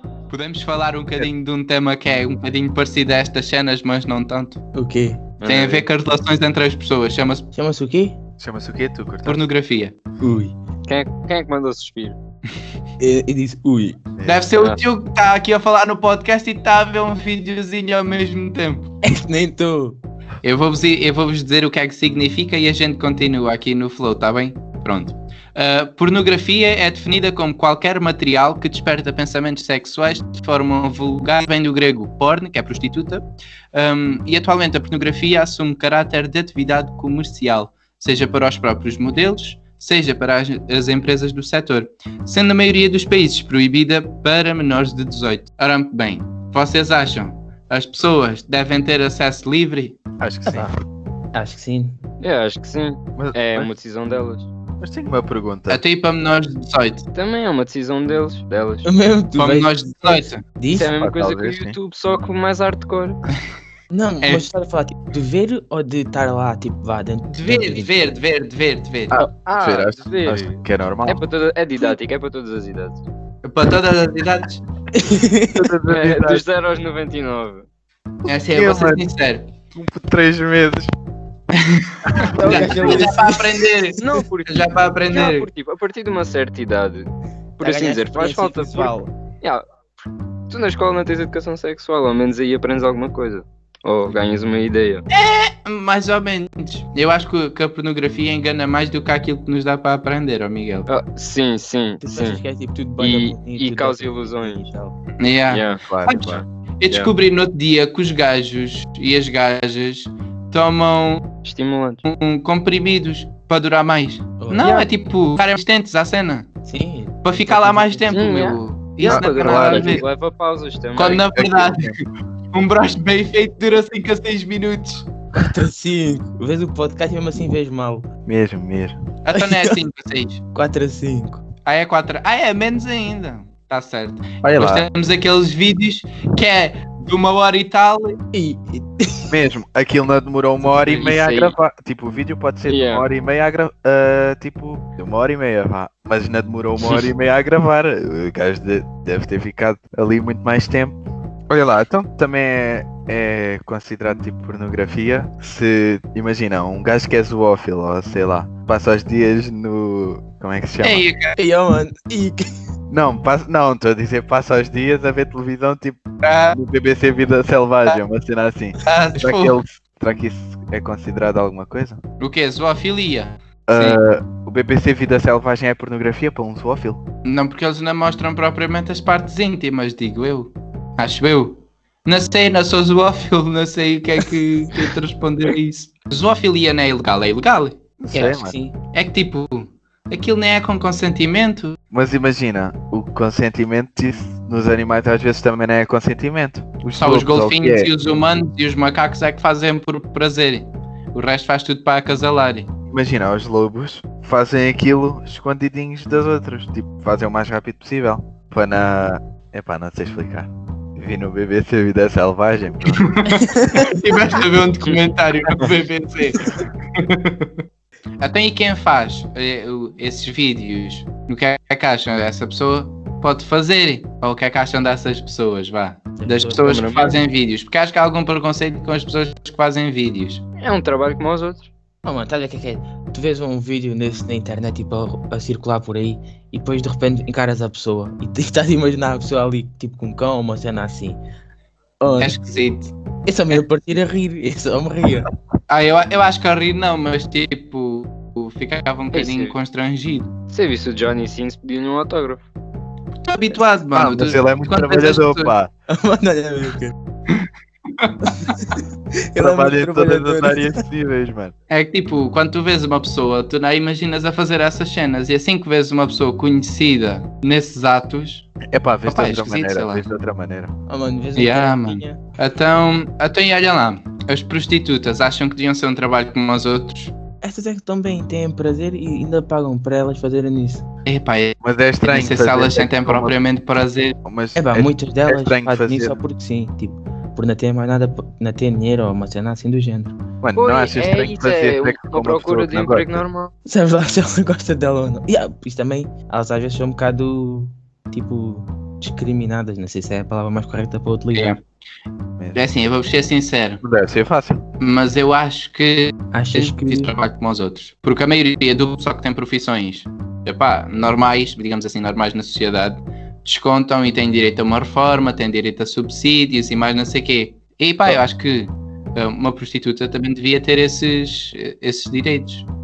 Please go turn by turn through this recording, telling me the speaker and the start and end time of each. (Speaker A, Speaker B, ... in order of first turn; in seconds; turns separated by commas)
Speaker A: 0.3-4.6, Speaker B: 4.8-5.2, Speaker C: 5.4-5.9, Speaker A: 5.5-7.5, Speaker B: 7.5-8.2, Speaker D: 8.4-9.4, Speaker A: 9.2-10.0, Speaker B: 10.2-10.6, Speaker C: 10.9-12.2, Speaker B: 13.0-14.0, Speaker D: 14.2-14.5, Speaker A: 14.2-18.9, Speaker B: 19.0-20.0, Speaker A: 20.4-50.0, Speaker D: 50.2-50.7, Speaker B: 50.5-50.7, Speaker B: 51.3-52.0, Speaker C: 52.2-54.5, Speaker D: 53.2-53.7, Speaker D: 54.8-55.8, Speaker A: 55.7-57.1, Speaker C: 57.1-58.9, Speaker B: 58.8-60.9, Speaker A: 59.4-60.4, Speaker C: 60.7-63.2, Speaker D: 60.8-61.8, Speaker B: 63.9-68.0, Speaker A: 64.2-64.5, Speaker A: 67.3-69.2, Speaker D: 69.1-71.3, Speaker C: 69.5-73.0, Speaker A: 73.4-74.6, Speaker B: 74.9-75.7, Speaker D: 75.5-76.5, Speaker C: 75.9-77.7, Speaker A: 78.3-79.5, Speaker D: 78.3-79.0, Speaker D: 79.7-80.9, Speaker D: 82.2-83.1, Speaker B: 82.3-83.7, Speaker A: 82.4-85.5, Speaker C: 84.0-87.1, Speaker C: 87.6-89.6, Speaker B: 87.6-89.1, Speaker C: 90.5-95.0, Speaker A: 95.1-100.9, Speaker C: 100.9-102.4, Speaker B: 102.0-105.0, Speaker C: 103.0-104.7, Speaker A: 105.2-111.3, Speaker C: 105.5-107.1, Speaker D: 105.9-106.4, Speaker C: 111.4-112.0, Speaker A: 112.0-116.5, Speaker B: 114.4-114.9, Speaker B: 116.6-118.4, Speaker A: 117.2-120.0, Speaker C: 118.1-121.3, Speaker D: 119.1-120.0, Speaker A: 121.0-125.1, Speaker D: 121.3-122.0, Speaker B: 125.3-128.1, Speaker D: 128.3-129.0, Speaker A: 129.2-130.4, Speaker B: 129.3-129.8, Speaker B: 130.5-131.4, Speaker A: 131.7-138.2, Speaker D: 134.4-134.9, Speaker B: 138.3-139.3, Speaker D: 139.3-161.1, Speaker C: 140.9-141.6, Speaker C: 142.7-143.1, Speaker A: 160.8-161.4, Speaker B: 161.4-162.4, Speaker D: 162.9-172.0, Speaker A: 166.2-166.6, Speaker A: 168.8-169.6, Speaker A: 172.2-174.0, Speaker D: 173.7-177.0, Speaker A: 177.2-187.8, Speaker D: 188.0-188.5, Speaker B: 188.1-188.8, Speaker A: 188.9-191.8, Speaker D: 191.9-197.9, Speaker A: 197.0-202.7, Speaker D: 202.9-213.1, Speaker A: 213.0-217.5, Speaker B: 213.3-213.9, Speaker A: 218.2-230.4, Speaker B: 226.2-227.1, Speaker C: 226.6-227.2, Speaker C: 230.6-231.7, Speaker B: 232.0-241.2, Speaker B: 242.0-242.4, Speaker A: 242.2-242.9, Speaker B: 243.2-245.3, Speaker A: 245.7-250.3, Speaker C: 249.1-249.6, Speaker C: 250.5-252.4, Speaker A: 253.2-255.5, Speaker D: 253.9-255.7, Speaker B: 255.9-256.9, Speaker B: 258.3-258.8, Speaker B: 259.3-260.8, Speaker D: 259.4-261.5, Speaker A: 261.7-268.5, Speaker D: 268.7-270.7, Speaker A: 269.1-270.1, Speaker B: 270.9-272.2, Speaker A: 271.4-277.1, Speaker B: 277.4-280.9, Speaker A: 281.1-284.1, Speaker D: 281.6-283.4, Speaker D: 284.2-286.2, Speaker B: 284.6-290.2, Speaker D: 290.4-293.2, Speaker C: 290.6-293.5, Speaker B: 293.7-301.6, Speaker A: 301.3-301.6, Speaker A: 302.6-303.8, Speaker D: 303.8-304.6, Speaker A: 304.8-322.7, Speaker B: 306.3-307.1